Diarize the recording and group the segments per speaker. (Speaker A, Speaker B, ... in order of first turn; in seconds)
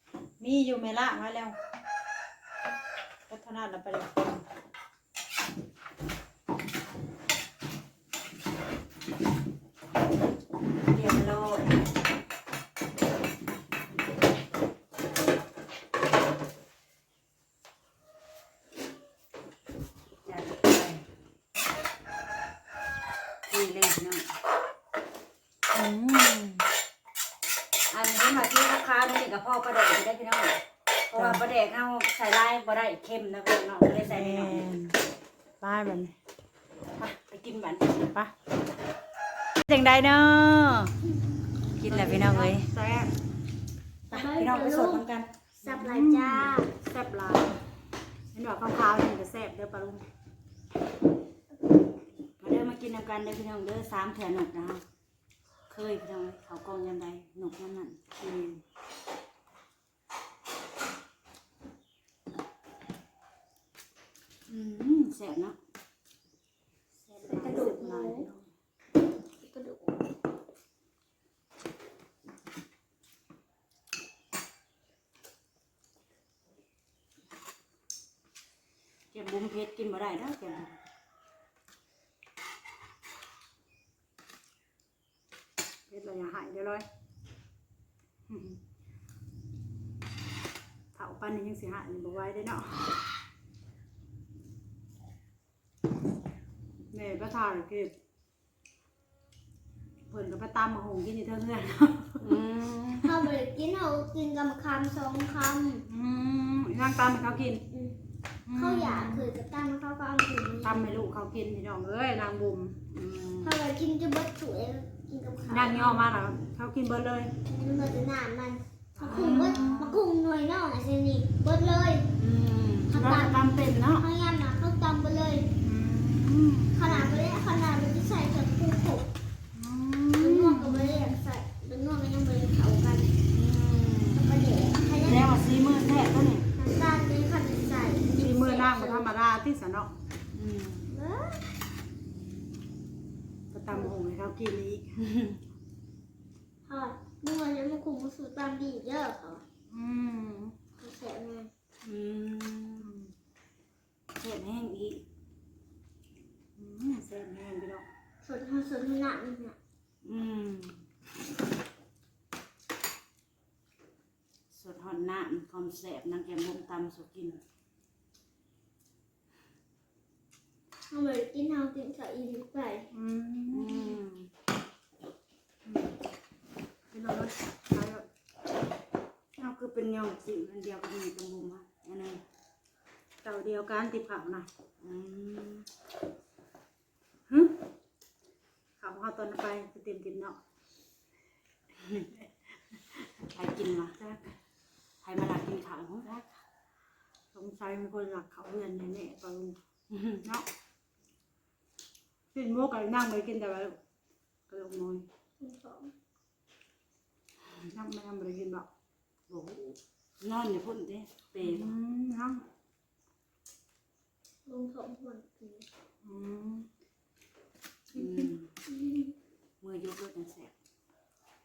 Speaker A: 0.4-1.5, 3.3-4.4, 25.7-26.7, 31.1-31.4, 34.0-35.0, 35.6-36.1, 41.9-43.1, 45.6-47.6, 48.3-50.0, 58.2-58.6, 66.9-68.5, 85.9-86.8, 88.3-88.6, 90.9-92.9, 96.9-97.9, 100.1-102.4, 105.9-107.6, 108.5-109.3, 110.6-112.8, 115.5-117.3, 119.0-120.0, 125.6-126.8, 129.5-131.2, 138.2-139.9, 143.5-144.9, 149.7-150.6, 152.8-153.1, 156.6-157.8, 172.9-174.0, 175.7-175.9, 176.9-178.1, 183.2-184.5, 187.3-187.6, 188.8-190.4, 194.0-194.3, 197.3-199.6, 202.3-203.8, 204.5-205.1, 207.7-208.7, 211.4-212.4, 216.0-216.7, 217.9-218.3
Speaker B: 10.8-11.8, 20.2-21.0, 23.5-24.3, 27.9-34.7, 37.0-38.1, 39.6-40.9, 41.7-42.7, 44.1-45.3, 52.4-54.8, 55.7-58.0, 64.5-65.5, 79.1-80.8, 102.2-103.2, 112.9-113.6, 119.0-119.8, 122.1-124.0, 133.3-134.3, 134.9-136.5, 140.3-140.9, 145.0-145.4, 151.8-152.9, 154.1-155.0, 160.0-160.8, 164.5-167.4, 173.5-174.3, 179.4-182.2, 184.8-185.7, 193.3-193.9, 195.0-196.1, 199.9-200.2, 209.3-211.7, 217.9-218.5, 219.6-220.5
Speaker C: 44.1-45.0, 45.6-46.7, 67.3-68.3, 69.4-70.1, 103.0-105.8, 107.7-108.0, 108.5-110.9, 113.4-116.0, 117.5-122.1, 122.9-123.4, 124.0-125.5, 126.7-129.1, 130.2-133.1, 134.1-135.3, 136.6-139.1, 140.9-141.4, 146.7-149.4, 150.8-151.5, 158.2-159.6, 170.9-172.9, 205.4-205.9, 214.4-215.7, 218.7-219.1